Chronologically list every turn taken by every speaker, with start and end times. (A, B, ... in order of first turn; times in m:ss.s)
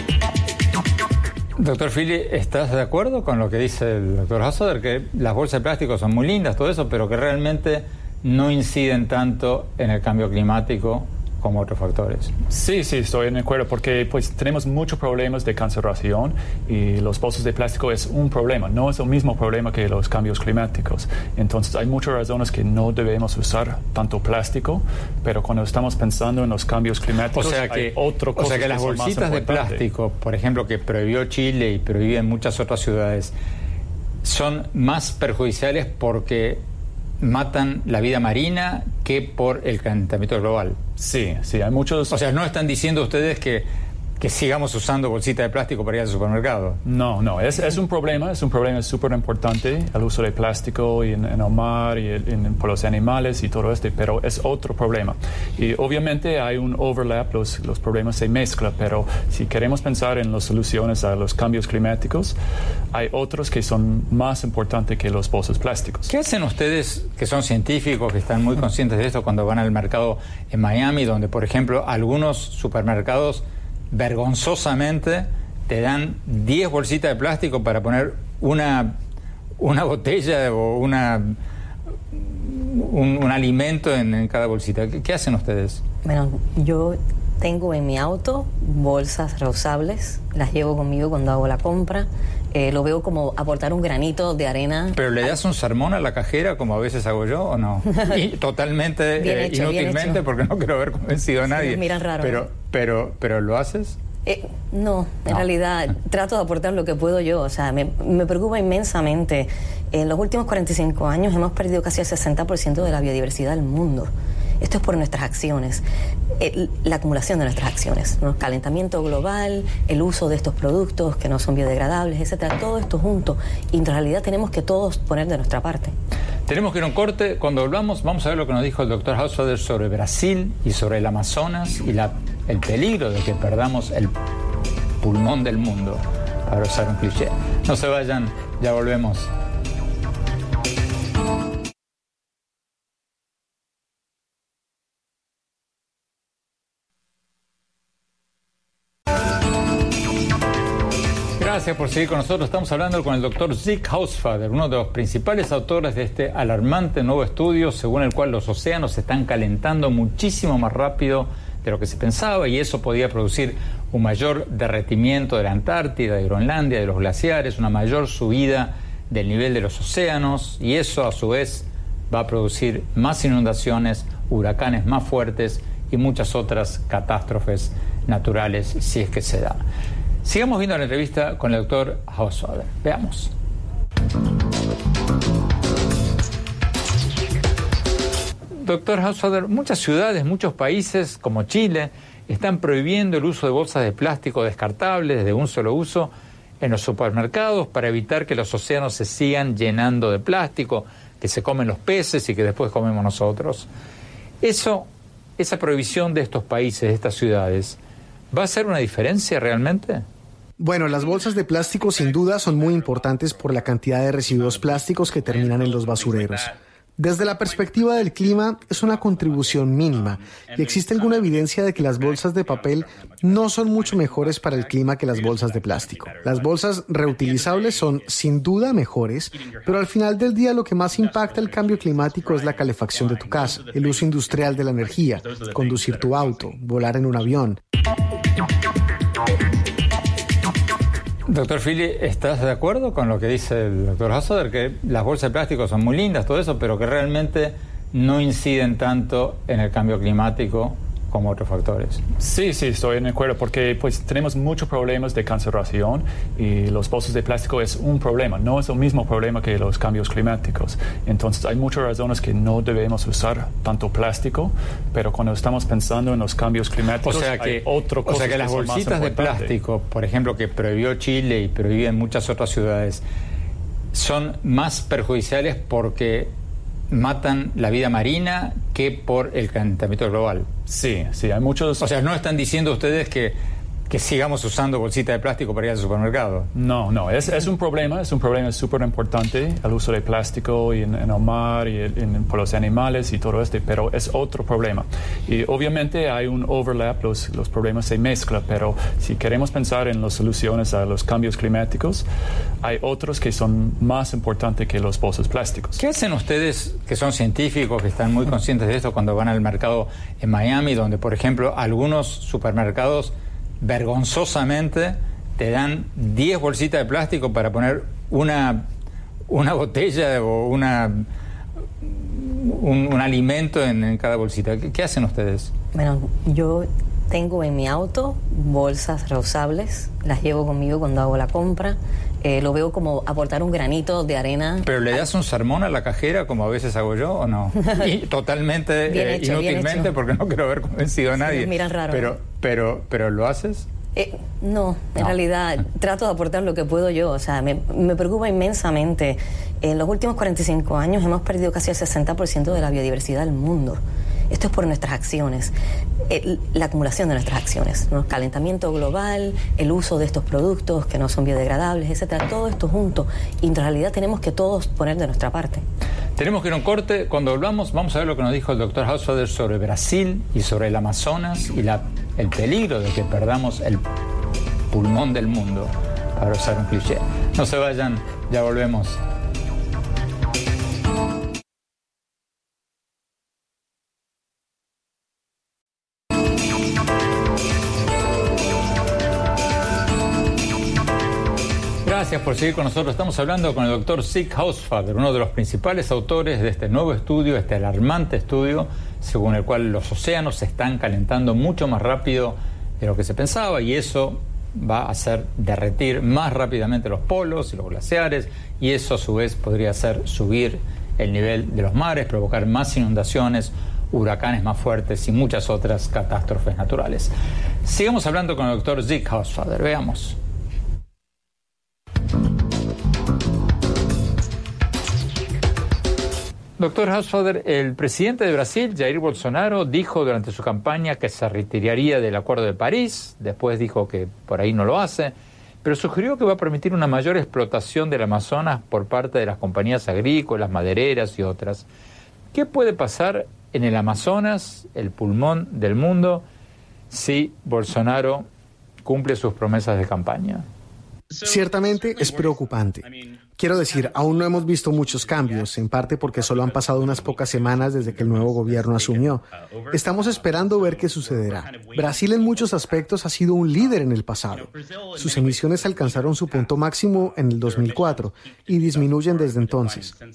0:01.6-0:12.3 A
0:12.5-0:29.8 B
0:27.3-0:33.3 A
0:34.2-0:36.6 A
0:37.2-0:40.8 A
0:41.0-0:42.1 B
0:42.1-0:43.7 A
0:44.2-0:46.8 A
0:46.8-1:02.3 B
1:02.9-1:06.1 B
1:06.1-1:19.0 A
1:19.6-1:21.4 A
1:22.1-1:25.8 A
1:26.0-1:35.3 C
1:34.9-1:44.0 A
1:37.9-1:38.2 C
1:39.2-1:40.2 C
1:41.5-1:42.4 C
1:44.2-1:55.8 C
1:56.4-2:05.9 C
2:06.5-2:14.1 A
2:15.0-2:19.3 A
2:31.4-2:59.6 A
3:00.2-3:03.3 A
3:08.6-3:23.7 A
3:24.4-3:27.8 A
3:28.3-3:30.0 A
3:30.6-3:57.6 D
4:01.3-4:12.0 A
4:12.2-4:29.5 B
4:27.0-4:33.0 A
4:33.9-4:36.3 A
4:36.9-4:40.5 A
4:40.7-4:41.8 B
4:41.8-4:43.4 A
4:43.9-4:46.5 A
4:46.5-5:02.0 B
5:02.6-5:05.8 B
5:05.8-5:18.6 A
5:19.3-5:21.1 A
5:21.8-5:25.5 A
5:25.7-5:35.0 C
5:34.6-5:43.7 A
5:37.6-5:37.9 C
5:38.9-5:39.9 C
5:41.2-5:42.1 C
5:44.0-5:55.5 C
5:56.1-6:05.6 C
6:06.2-6:13.8 A
6:14.7-6:19.0 A
6:31.8-6:57.1 A
6:57.6-7:00.2 A
7:06.6-7:21.6 A
7:22.3-7:26.2 A
7:26.9-7:28.3 A
7:28.8-7:30.4 A
7:31.2-7:49.9 D